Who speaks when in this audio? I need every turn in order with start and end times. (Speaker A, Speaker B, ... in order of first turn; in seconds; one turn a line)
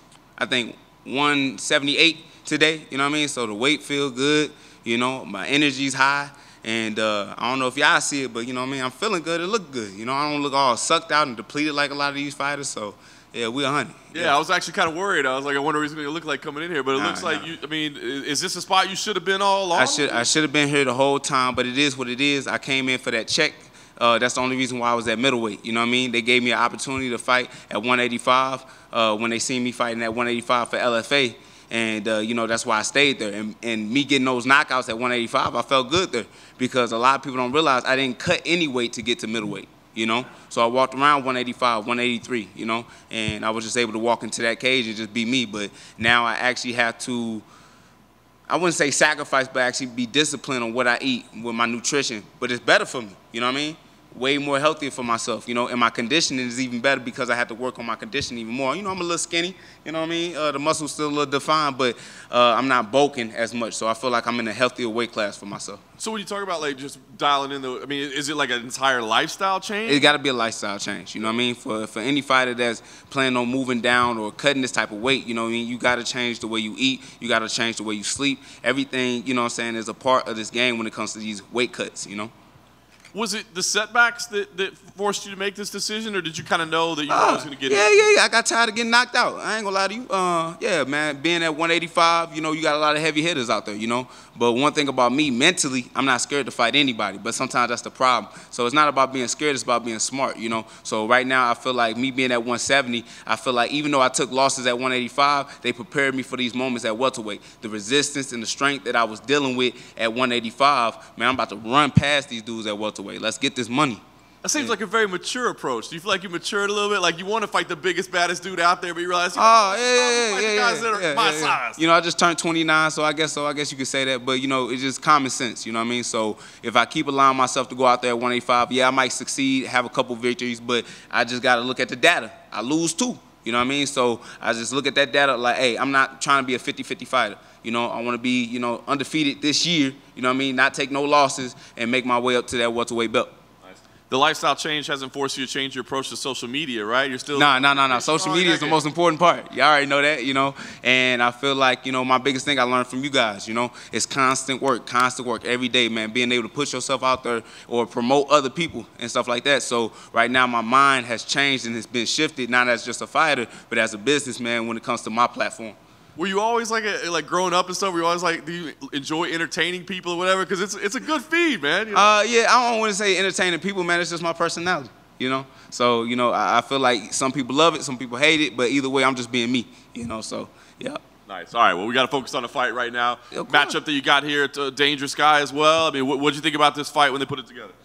Speaker A: 0.4-14.4
Speaker B: 14.1-20.2
Speaker A: 16.9-17.5
Speaker A: 19.8-47.4
Speaker A: 48.5-65.8
Speaker B: 66.0-70.1
Speaker A: 69.8-82.3
Speaker B: 83.1-87.9
Speaker A: 87.1-114.0
Speaker B: 114.4-121.8
Speaker A: 119.3-143.3
Speaker B: 143.6-148.8
Speaker A: 147.3-165.8
Speaker B: 166.2-172.1
Speaker A: 171.9-181.0
Speaker B: 181.3-187.7
Speaker A: 183.3-183.8